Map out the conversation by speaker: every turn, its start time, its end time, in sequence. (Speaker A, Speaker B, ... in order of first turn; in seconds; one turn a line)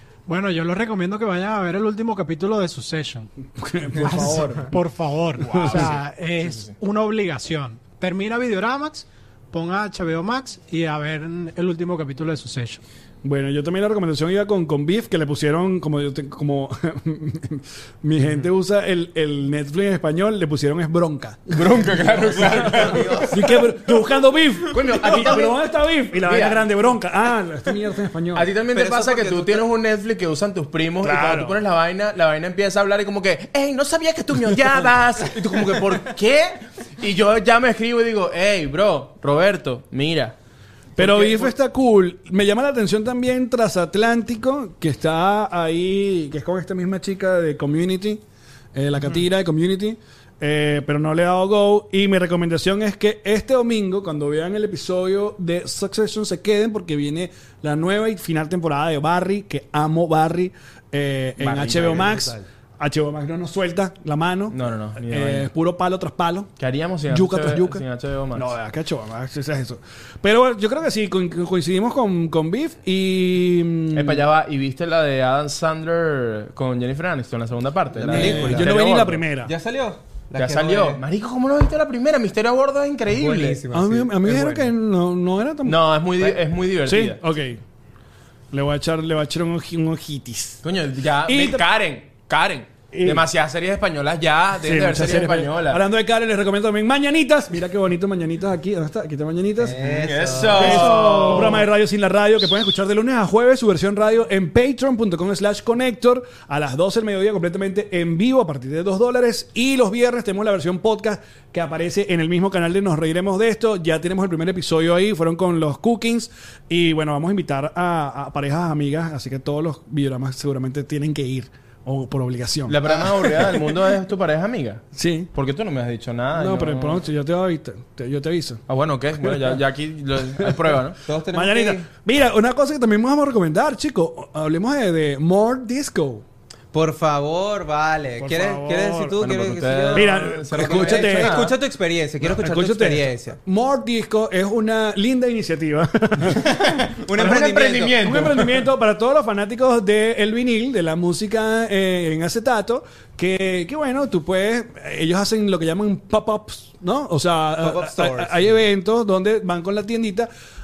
Speaker A: 0.3-3.3
Speaker B: 3.6-4.8
Speaker A: 4.0-12.8
Speaker C: 5.5-6.7
Speaker B: 5.5-5.9
Speaker B: 13.2-28.5
Speaker C: 21.5-23.3
Speaker D: 22.1-23.7
Speaker C: 24.7-25.6
Speaker C: 26.2-26.7
Speaker C: 28.3-40.4
Speaker D: 28.7-29.7
Speaker B: 31.0-31.6
Speaker B: 41.0-48.2
Speaker C: 41.0-41.5
Speaker B: 48.7-66.5
Speaker C: 61.4-62.4
Speaker C: 64.5-65.5
Speaker C: 66.6-68.5
Speaker B: 67.1-67.8
Speaker B: 68.3-74.2
Speaker C: 73.9-79.2
Speaker D: 77.9-78.8
Speaker B: 78.1-79.5
Speaker D: 79.4-81.0
Speaker C: 80.4-83.6
Speaker D: 83.1-84.7
Speaker B: 83.7-85.8
Speaker C: 85.7-87.2
Speaker B: 86.8-87.6
Speaker B: 88.5-90.6
Speaker C: 90.6-95.8
Speaker B: 91.3-91.7
Speaker B: 92.9-93.2
Speaker B: 94.6-100.0
Speaker D: 99.6-101.4
Speaker C: 99.8-101.7
Speaker B: 100.5-123.6
Speaker C: 122.7-127.0
Speaker B: 125.0-125.3
Speaker B: 126.3-128.6
Speaker C: 128.7-131.0
Speaker B: 129.2-129.5
Speaker D: 131.1-131.9
Speaker B: 131.3-136.2
Speaker D: 136.7-143.4
Speaker B: 138.2-139.2
Speaker C: 139.2-141.5
Speaker B: 139.9-141.5
Speaker B: 142.2-146.5
Speaker D: 146.4-148.1
Speaker C: 146.9-148.7
Speaker B: 148.0-160.3
Speaker D: 157.6-158.6